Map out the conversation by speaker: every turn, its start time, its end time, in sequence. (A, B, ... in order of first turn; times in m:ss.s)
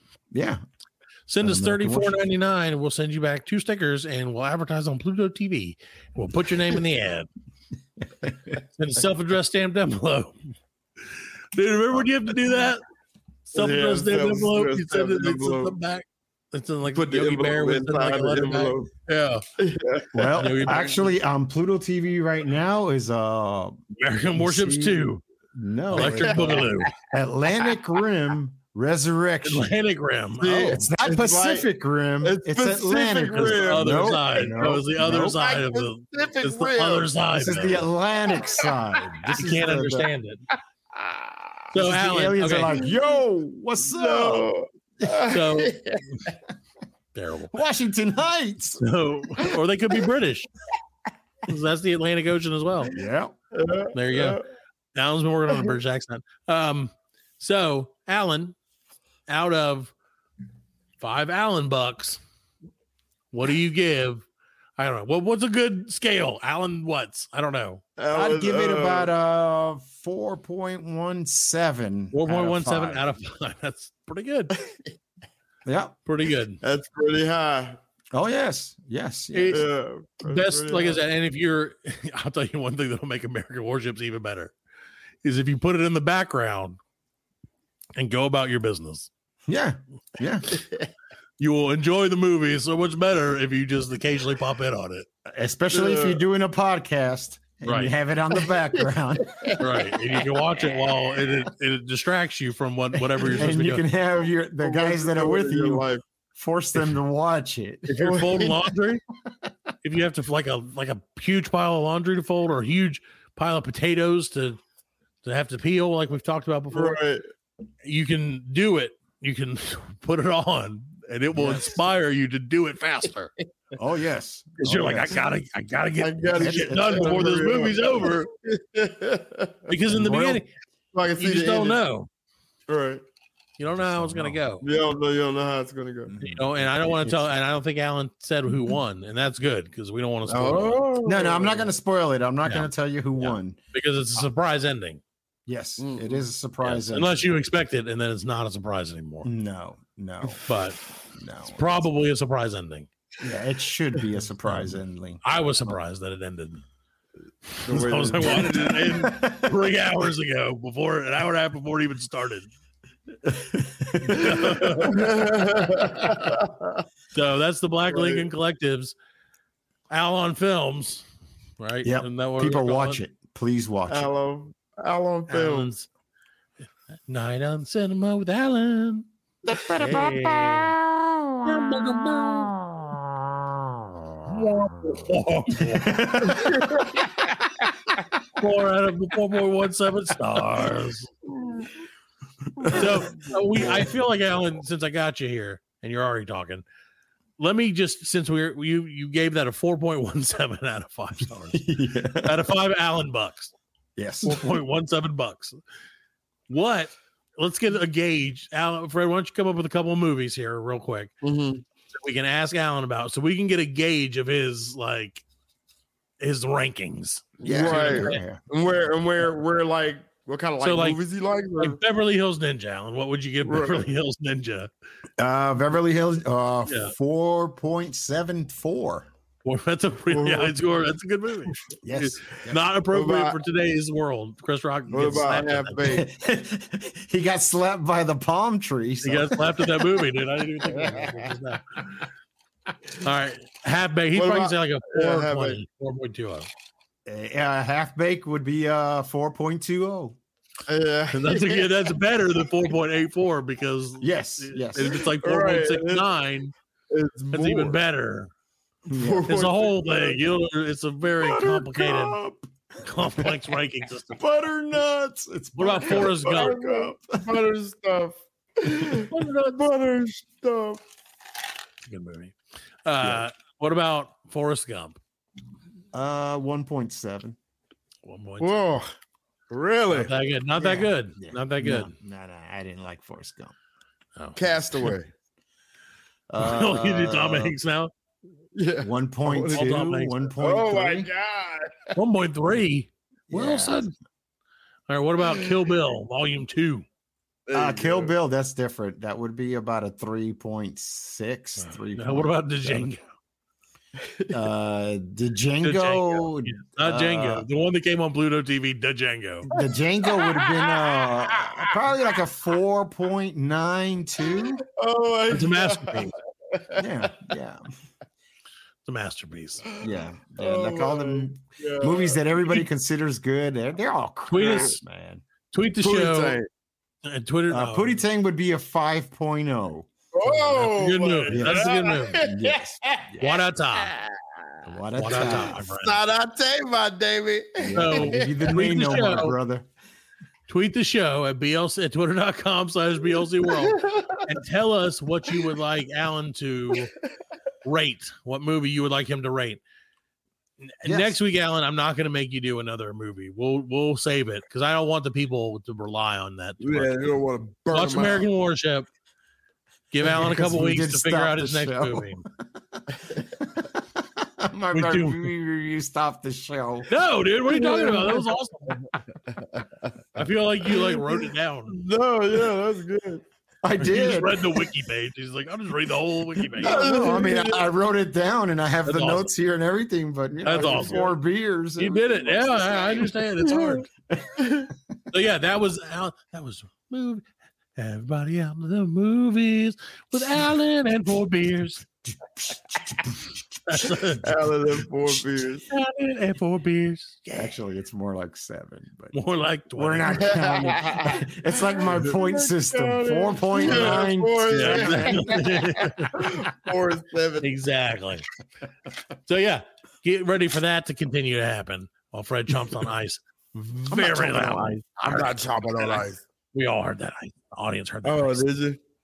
0:00.3-0:00.6 A
0:01.3-0:07.3 B
0:01.4-0:02.2 A
0:08.8-0:10.3 B
0:11.5-0:12.8 B
0:13.5-0:19.4 B
0:13.5-0:15.8 C
0:16.9-0:18.9 C
0:19.6-0:20.1 C
0:20.1-0:23.8 A
0:20.4-0:21.0 B
0:23.9-0:25.2 B
0:24.4-0:29.7 A
0:25.9-0:26.9 B
0:25.9-0:26.7 C
0:29.4-0:30.8 B
0:30.4-0:31.7 C
0:30.4-0:35.4 A
0:32.2-0:34.3 C
0:33.3-0:37.9 B
0:35.1-0:37.1 C
0:37.3-0:40.1 A
0:39.3-0:40.4 B
0:41.7-0:42.8 B
0:41.7-0:44.5 A
0:43.8-0:46.3 C
0:45.3-0:45.7 B
0:47.1-0:47.5 B
0:47.5-0:48.8 A
0:48.8-0:50.5 B
0:51.5-0:52.9 B
0:52.9-0:53.3 A
0:53.5-0:54.4 C
0:53.9-0:54.4 B
0:54.9-0:58.5 B
0:59.3-0:59.9 B
1:01.0-1:02.2 B
1:03.3-1:04.2 B
1:04.8-1:07.8 B
1:08.0-1:09.1 C
1:08.1-1:13.1 A
1:12.1-1:14.5 B
1:15.6-1:16.0 A
1:16.0-1:16.6 B
1:16.6-1:17.8 C
1:18.1-1:19.6 A
1:19.3-1:19.7 B
1:19.5-1:21.0 C
1:20.2-1:24.5 B
1:25.2-1:26.8 B
1:28.0-1:29.1 B
1:29.5-1:30.5 A
1:31.4-1:35.1 B
1:35.2-1:39.5 A
1:35.7-1:36.2 C
1:37.6-1:37.9 B
1:39.3-1:39.9 C
1:39.6-1:43.8 B
1:43.1-1:47.9 A
1:44.6-1:46.0 C
1:47.9-1:48.6 C
1:47.9-1:49.0 B
1:49.8-1:54.6 B
1:55.2-1:57.0 B
1:56.7-1:57.2 C
1:57.8-2:03.3 B
2:03.7-2:05.2 A
2:04.6-2:08.3 B
2:06.0-2:09.7 C
2:06.3-2:07.4 A
2:09.7-2:10.5 B
2:09.9-2:10.4 A
2:10.9-2:11.8 C
2:11.2-2:12.1 B
2:12.7-2:13.0 C
2:13.6-2:14.6 B
2:13.7-2:14.4 A
2:14.6-2:16.1 C
2:16.1-2:17.3 A
2:16.2-2:20.9 B
2:20.3-2:21.7 C
2:21.0-2:23.6 A
2:22.4-2:25.0 B
2:25.4-2:27.2 A
2:25.8-2:26.2 C
2:26.6-2:29.3 B
2:29.2-2:30.4 A
2:30.5-2:30.8 B
2:31.1-2:31.9 A
2:31.5-2:32.9 B
2:33.2-2:35.7 A
2:35.2-2:36.6 B
2:37.6-2:39.1 C
2:37.6-2:42.5 B
2:39.0-2:39.5 A
2:43.2-2:44.5 A
2:44.0-2:45.1 B
2:44.2-2:46.8 C
2:47.1-2:48.9 B
2:47.9-2:48.3 C
2:49.9-2:51.0 B
2:51.6-2:53.0 B
2:51.8-2:54.1 A
2:53.9-2:55.7 C
2:55.3-2:55.9 B
2:57.1-2:59.0 B
2:59.4-3:05.0 A
2:59.7-3:00.7 B
3:01.4-3:02.5 B
3:04.3-3:06.3 B
3:05.6-3:07.0 A
3:06.3-3:06.9 C
3:08.4-3:11.1 B
3:11.3-3:11.7 C
3:12.6-3:13.8 C
3:12.6-3:13.0 A
3:12.7-3:16.6 B
3:13.5-3:13.8 A
3:17.4-3:21.6 B
3:21.5-3:22.4 A
3:22.2-3:23.5 B
3:24.0-3:24.5 A
3:24.2-3:25.6 B
3:26.5-3:31.1 B
3:31.2-3:31.6 C
3:31.9-3:35.2 B
3:36.2-3:38.2 B
3:37.4-3:41.8 C
3:37.4-3:38.4 A
3:40.6-3:41.0 B
3:41.6-3:44.7 B
3:43.4-3:43.8 C
3:45.2-3:49.1 A
3:46.6-3:46.9 B
3:49.4-3:55.8 B
3:50.1-3:50.6 C
3:51.8-3:52.6 A
3:52.9-3:53.4 C
3:54.9-3:56.1 C
3:55.8-3:59.8 A
3:59.0-4:01.8 B
4:00.8-4:01.1 A
4:03.0-4:06.5 B
4:04.1-4:05.6 C
4:07.0-4:10.2 A
4:10.7-4:11.7 C
4:11.1-4:16.5 B
4:14.0-4:15.0 A
4:15.2-4:16.1 C
4:16.9-4:17.8 C
4:17.3-4:18.3 B
4:18.9-4:19.4 A
4:18.9-4:20.2 C
4:19.3-4:22.2 B
4:21.2-4:22.5 A
4:22.8-4:24.2 B
4:24.2-4:27.3 A
4:25.6-4:26.6 B
4:25.9-4:30.8 C
4:29.1-4:29.6 B
4:31.9-4:35.0 B
4:33.0-4:33.2 A
4:35.9-4:37.4 A
4:38.0-4:38.5 B
4:38.4-4:38.9 C
4:39.5-4:40.1 C
4:39.9-4:41.9 B
4:40.6-4:43.5 A
4:44.2-4:44.9 B
4:44.4-4:45.1 C
4:46.3-4:47.5 A
4:46.4-4:47.9 B
4:48.6-4:49.7 C
4:48.8-4:51.1 A
4:49.5-4:50.2 B
4:50.4-4:51.9 C
4:51.9-4:53.9 B
4:53.3-4:53.9 A
4:54.9-4:56.8 B
4:57.5-4:58.1 C
4:57.5-5:03.0 A
5:01.6-5:03.0 B
5:04.1-5:04.3 C
5:04.3-5:07.4 A
5:05.6-5:09.5 B
5:09.5-5:14.6 A
5:09.6-5:11.4 C
5:14.8-5:16.8 C
5:15.3-5:16.1 B
5:16.8-5:17.6 A
5:18.8-5:19.6 B
5:19.8-5:22.6 C
5:19.8-5:25.2 A
5:24.3-5:24.8 B
5:24.3-5:24.7 C
5:25.5-5:26.4 B
5:25.8-5:26.5 C
5:27.0-5:28.0 B
5:27.5-5:29.9 A
5:30.1-5:33.0 C
5:30.2-5:32.2 B
5:31.3-5:33.4 A
5:33.2-5:33.9 B
5:33.8-5:34.1 C
5:34.6-5:35.6 A
5:35.0-5:36.0 B
5:35.1-5:38.5 C
5:37.6-5:39.7 A
5:37.7-5:39.4 B
5:40.5-5:46.9 B
5:43.5-5:44.2 C
5:47.6-5:49.6 B
5:50.6-5:57.0 B
5:50.8-5:51.2 A
5:56.6-5:58.3 C
5:57.7-5:58.9 B
5:59.9-6:02.2 B
6:00.0-6:02.8 A
6:04.0-6:06.9 A
6:04.7-6:05.3 B
6:06.9-6:08.8 B
6:07.5-6:08.2 C
6:09.3-6:09.9 C
6:10.2-6:11.8 B
6:10.6-6:13.2 C
6:13.6-6:14.6 A
6:13.8-6:16.8 B
6:16.5-6:23.0 A
6:16.6-6:17.6 C
6:18.8-6:19.3 B
6:20.4-6:21.1 B
6:20.4-6:21.1 C
6:21.8-6:23.9 B
6:23.4-6:23.8 C
6:24.4-6:24.7 C
6:25.1-6:27.2 B
6:27.8-6:31.8 B
6:32.0-6:33.4 A
6:33.6-6:34.3 B
6:34.2-6:35.6 C
6:35.7-6:37.5 B
6:37.3-6:39.2 A
6:39.1-6:40.4 B
6:39.7-6:45.4 A
6:40.1-6:47.5 C
6:43.6-6:46.1 B
6:47.4-6:48.2 B
6:49.3-6:58.4 B
6:53.9-6:56.2 C
6:58.0-6:58.8 C